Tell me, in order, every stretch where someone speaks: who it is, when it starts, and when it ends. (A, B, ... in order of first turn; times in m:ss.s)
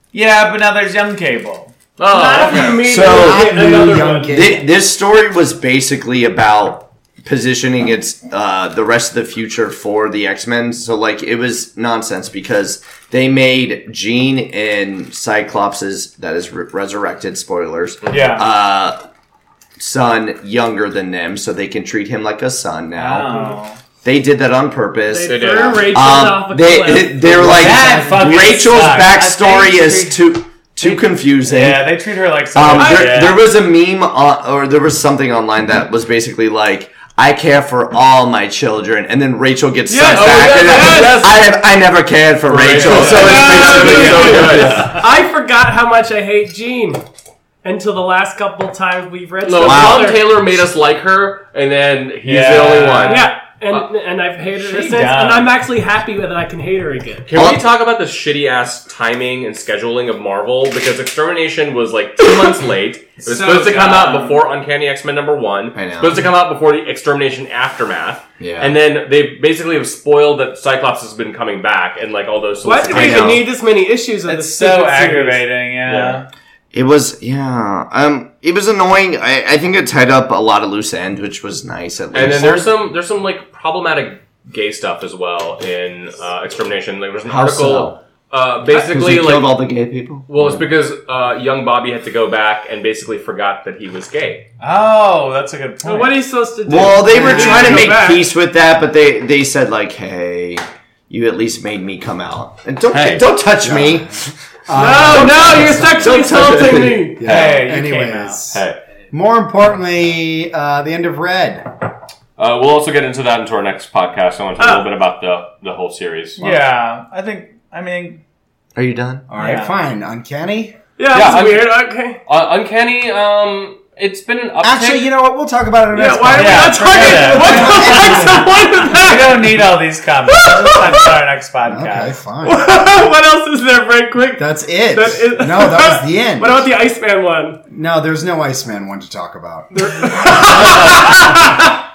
0:00.1-0:01.7 A
0:02.0-0:03.0 B
0:02.0-0:04.5 C
0:02.6-0:19.0 D
0:02.9-0:04.6 E
0:18.1-0:18.5 A
0:19.8-0:23.4 D
0:22.9-0:23.8 A
0:23.3-0:23.6 C
0:24.0-0:31.9 D
0:25.1-0:27.9 C
0:25.2-0:25.9 B
0:27.4-0:33.4 A
0:32.5-0:44.9 D
0:32.7-0:33.4 C
0:39.9-0:41.4 C
0:40.1-0:41.3 B
0:42.4-0:45.0 B
0:42.7-0:45.0 A
0:42.7-0:47.0 C
0:47.6-0:50.2 C
0:49.4-0:53.9 B
0:49.6-0:50.2 D
0:52.2-0:53.3 A
0:53.0-0:57.3 C
0:54.6-0:55.6 A
0:57.3-1:13.4 B
0:57.3-0:57.6 D
1:03.2-1:04.3 A
1:03.3-1:04.3 C
1:05.7-1:06.3 D
1:08.4-1:08.8 D
1:12.6-1:15.5 C
1:12.9-1:13.5 D
1:14.2-1:16.3 A
1:15.8-1:16.2 B
1:16.7-1:22.8 D
1:22.1-1:29.6 B
1:27.2-1:28.0 D
1:28.7-1:30.6 D
1:30.3-1:34.5 B
1:34.6-1:36.2 A
1:35.8-1:38.3 C
1:36.6-1:44.3 D
1:37.1-1:37.9 E
1:42.9-1:43.3 B
1:43.6-1:46.4 E
1:44.7-1:47.3 C
1:45.1-1:47.1 D
1:45.5-1:45.8 A
1:47.1-1:51.7 E
1:47.2-1:48.4 A
1:48.5-1:48.8 B
1:52.4-1:56.6 B
1:54.6-1:54.8 C
1:56.4-1:58.2 A
1:58.7-1:59.3 D
1:59.3-2:00.8 E
1:59.4-1:59.7 A
2:01.0-2:02.2 C
2:01.1-2:05.1 B
2:04.6-2:08.6 E
2:05.9-2:09.6 C
2:06.3-2:08.2 A
2:09.0-2:12.2 A
2:10.3-2:11.1 C
2:11.6-2:12.9 E
2:12.4-2:17.6 C
2:14.4-2:16.7 E
2:17.7-2:21.2 E
2:19.7-2:21.6 C